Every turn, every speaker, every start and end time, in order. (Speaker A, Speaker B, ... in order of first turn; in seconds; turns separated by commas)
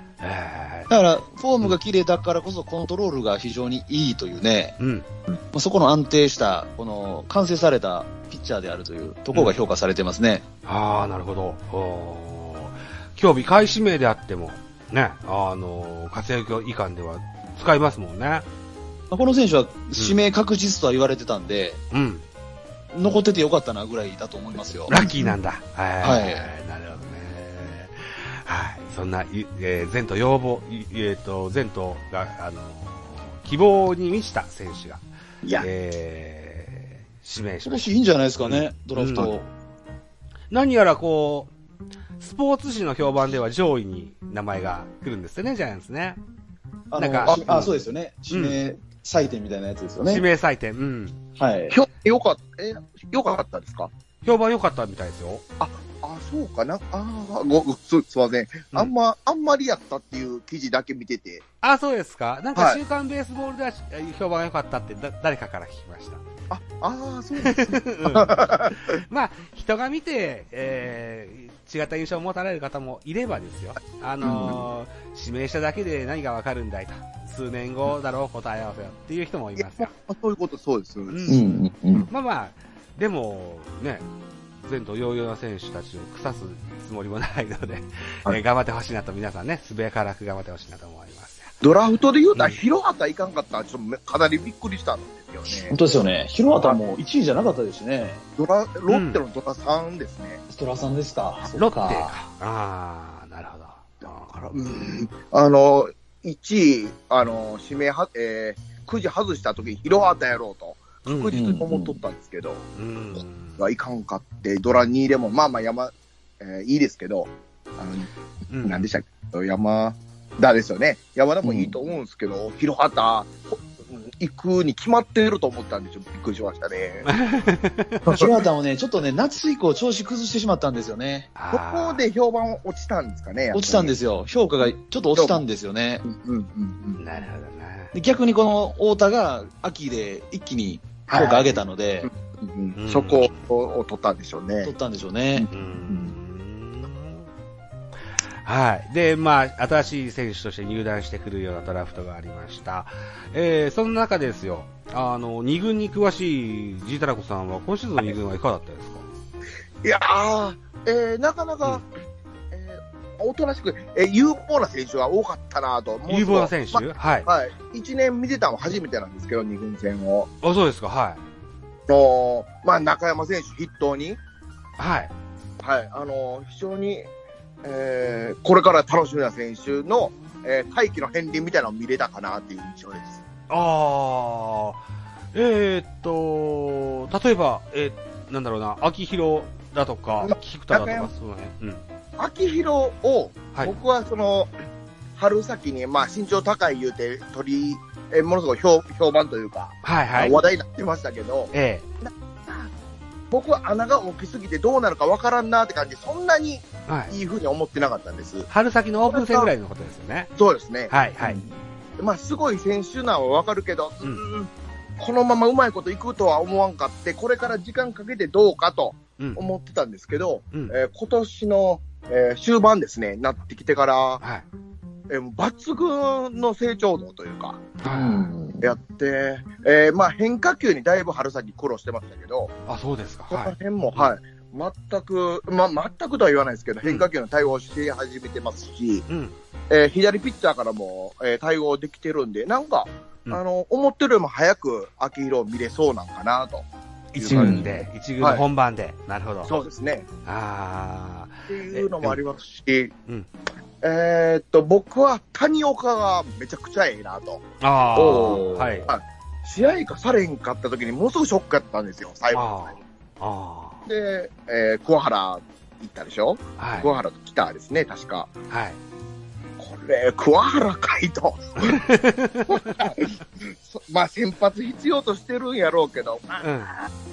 Speaker A: 0.2-0.9, Speaker B: 0.9-4.7, Speaker A: 4.8-5.0, Speaker B: 5.5-10.4, Speaker A: 10.7-18.4, Speaker B: 19.1-21.8, Speaker A: 21.9-22.2, Speaker B: 22.9-25.0, Speaker A: 24.9-35.0, Speaker C: 24.9-25.3, Speaker B: 26.0-26.5, Speaker A: 35.6-39.4, Speaker B: 37.6-39.5, Speaker A: 40.5-41.5, Speaker A: 42.2-46.2, Speaker B: 46.9-50.2, Speaker A: 47.0-47.7, Speaker C: 47.3-47.6, Speaker A: 48.3-48.6, Speaker A: 50.1-51.2, Speaker B: 51.4-51.8, Speaker C: 51.7-53.9, Speaker A: 54.2-55.4, Speaker C: 55.6-61.4, Speaker A: 61.6-66.2, Speaker C: 66.5-69.0, Speaker A: 67.4-79.9, Speaker C: 74.2-74.6, Speaker C: 79.6-82.1, Speaker A: 81.1-81.4, Speaker B: 81.3-82.1, Speaker A: 82.1-84.0, Speaker A: 84.6-91.5, Speaker C: 91.6-95.7, Speaker A: 92.3-92.6, Speaker B: 95.5-98.2, Speaker C: 98.4-100.4, Speaker A: 98.9-99.2, Speaker B: 100.5-102.2, Speaker A: 101.5-104.4, Speaker C: 104.1-112.7, Speaker A: 111.0-111.4, Speaker B: 111.3-112.0, Speaker A: 112.8-113.6, Speaker C: 113.6-118.1, Speaker A: 118.5-118.9, Speaker C: 118.6-127.1, Speaker B: 121.4-121.7, Speaker A: 127.0-128.3, Speaker B: 128.1-131.3, Speaker A: 131.4-132.0, Speaker C: 131.5-133.9, Speaker B: 133.5-136.0, Speaker C: 136.0-137.0, Speaker A: 137.0-137.9, Speaker B: 137.9-142.1, Speaker C: 141.1-144.7, Speaker A: 142.8-143.4, Speaker B: 144.6-145.5, Speaker C: 145.4-146.1, Speaker A: 145.5-147.3, Speaker A: 148.4-159.1, Speaker C: 159.8-161.8, Speaker C: 162.5-170.3, Speaker A: 166.1-167.3, Speaker A: 170.4-171.2, Speaker C: 171.9-174.2, Speaker A: 174.8-175.1, Speaker C: 175.6-177.1, Speaker C: 177.6-183.2, Speaker A: 183.5-184.8, Speaker A: 185.3-191.8, Speaker C: 190.2-191.1, Speaker C: 192.2-194.5, Speaker C: 195.2-202.7, Speaker A: 199.8-200.4, Speaker A: 201.5-201.9, Speaker C: 203.3-208.5, Speaker A: 206.9-207.1, Speaker A: 208.5-210.3, Speaker C: 209.1-209.5, Speaker C: 210.4-210.9, Speaker A: 210.9-211.4, Speaker B: 211.2-211.5, Speaker C: 212.0-224.2, Speaker A: 219.2-219.4, Speaker A: 224.2-224.4, Speaker C: 225.1-227.7, Speaker A: 227.8-228.3, Speaker B: 227.8-228.7, Speaker C: 228.6-232.5, Speaker A: 232.7-234.1, Speaker C: 233.3-239.1, Speaker A: 239.1-239.4, Speaker C: 239.7-246.6, Speaker A: 247.1-249.5, Speaker C: 247.2-248.4, Speaker B: 247.3-247.7, Speaker C: 249.4-250.1, Speaker A: 250.2-252.2, Speaker C: 251.5-252.9, Speaker C: 253.8-257.4, Speaker A: 257.6-258.9, Speaker B: 257.9-258.9, Speaker C: 258.1-262.7, Speaker A: 262.3-263.9, Speaker C: 263.9-268.3, Speaker A: 266.6-266.9, Speaker A: 268.5-268.8, Speaker C: 269.6-271.9, Speaker A: 271.6-272.9, Speaker C: 272.5-276.9, Speaker A: 276.4-276.8